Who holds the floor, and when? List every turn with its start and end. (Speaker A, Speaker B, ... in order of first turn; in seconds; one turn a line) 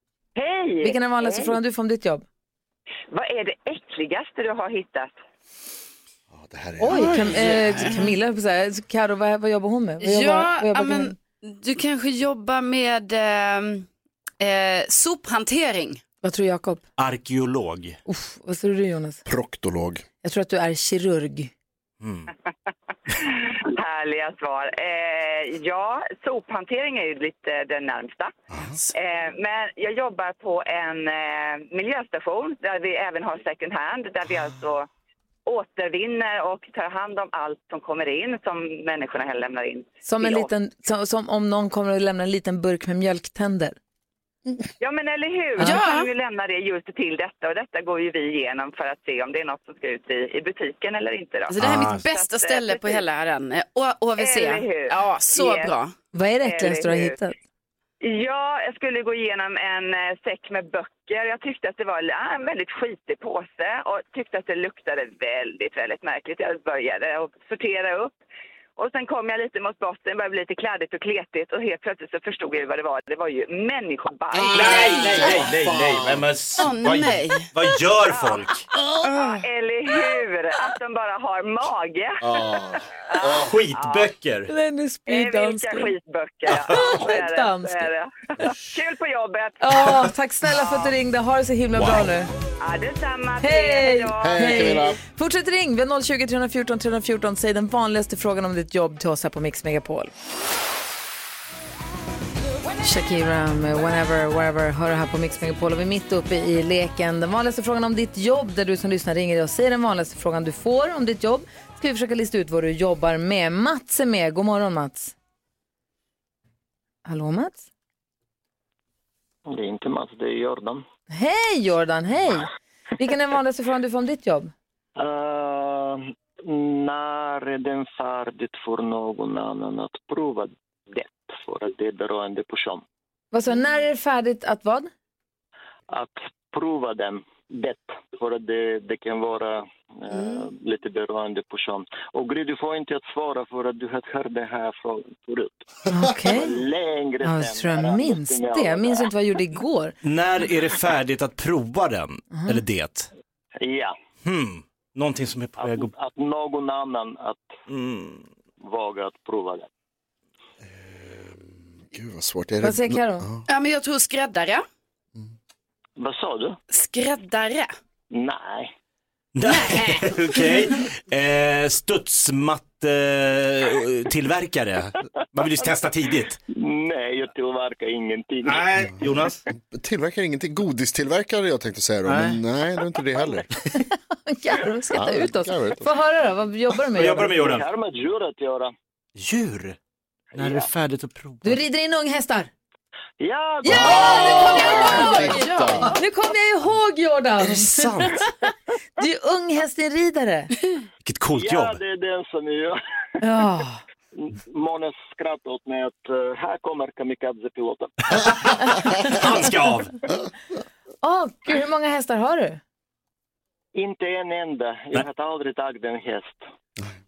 Speaker A: 0.3-1.5
Speaker B: 0.8-2.2
Speaker A: 3.1-5.1
Speaker C: 6.3-7.4
Speaker B: 6.8-11.2
Speaker D: 7.0-8.1
Speaker D: 10.0-13.9
Speaker D: 14.4-16.0
Speaker B: 16.2-16.8
Speaker E: 17.0-18.0
Speaker B: 18.1-19.2
Speaker C: 19.2-20.0
Speaker B: 20.2-21.5
Speaker E: 22.0-22.3
Speaker A: 23.4-28.3
Speaker A: 28.9-34.9
Speaker A: 35.5-40.5
Speaker B: 40.0-43.8
Speaker A: 44.8-53.0
Speaker D: 45.6-46.1
Speaker D: 51.5-55.9
Speaker E: 51.6-52.0
Speaker A: 54.2-55.7
Speaker B: 56.1-57.4
Speaker A: 56.4-57.2
Speaker A: 58.0-68.2
Speaker A: 68.8-75.0
Speaker C: 74.3-76.2
Speaker E: 74.5-78.6
Speaker D: 76.6-77.5
Speaker A: 78.1-78.4
Speaker A: 79.0-82.2
Speaker C: 82.2-83.5
Speaker A: 83.1-84.1
Speaker E: 83.4-84.5
Speaker B: 84.5-85.9
Speaker A: 85.1-89.8
Speaker E: 86.5-86.9
Speaker B: 86.5-87.9
Speaker B: 89.6-92.3
Speaker A: 92.6-94.8
Speaker B: 93.4-100.1
Speaker C: 94.2-95.0
Speaker B: 102.8-115.1
Speaker B: 117.0-117.7
Speaker F: 119.5-120.8
Speaker B: 121.1-124.5
Speaker F: 125.0-132.8
Speaker B: 133.3-134.9
Speaker F: 135.9-149.1
Speaker D: 140.1-140.5
Speaker B: 145.9-146.5
Speaker B: 147.2-150.0
Speaker E: 150.0-153.1
Speaker B: 152.3-152.6
Speaker F: 153.6-153.9
Speaker E: 154.2-155.9
Speaker F: 155.6-157.5
Speaker E: 157.7-158.2
Speaker F: 158.6-159.7
Speaker C: 160.6-163.4
Speaker B: 162.6-163.2
Speaker D: 163.5-164.6
Speaker F: 166.0-166.6
Speaker D: 166.7-167.7
Speaker F: 168.1-168.7
Speaker E: 169.3-176.4
Speaker D: 169.4-170.1
Speaker F: 176.5-178.7
Speaker E: 178.4-179.4
Speaker C: 179.5-183.5
Speaker E: 182.0-182.4
Speaker B: 183.9-187.3
Speaker C: 184.9-185.9
Speaker E: 186.9-187.7
Speaker F: 187.0-188.7
Speaker E: 189.2-189.8
Speaker F: 190.3-190.7
Speaker E: 190.3-191.6
Speaker B: 191.4-192.5
Speaker F: 193.2-195.6
Speaker B: 193.6-200.5
Speaker C: 193.7-195.9
Speaker E: 197.4-198.2
Speaker E: 201.0-201.8
Speaker F: 201.3-202.8
Speaker B: 203.2-203.8
Speaker F: 204.1-207.9
Speaker E: 208.1-210.0
Speaker B: 211.0-212.6
Speaker F: 213.7-216.4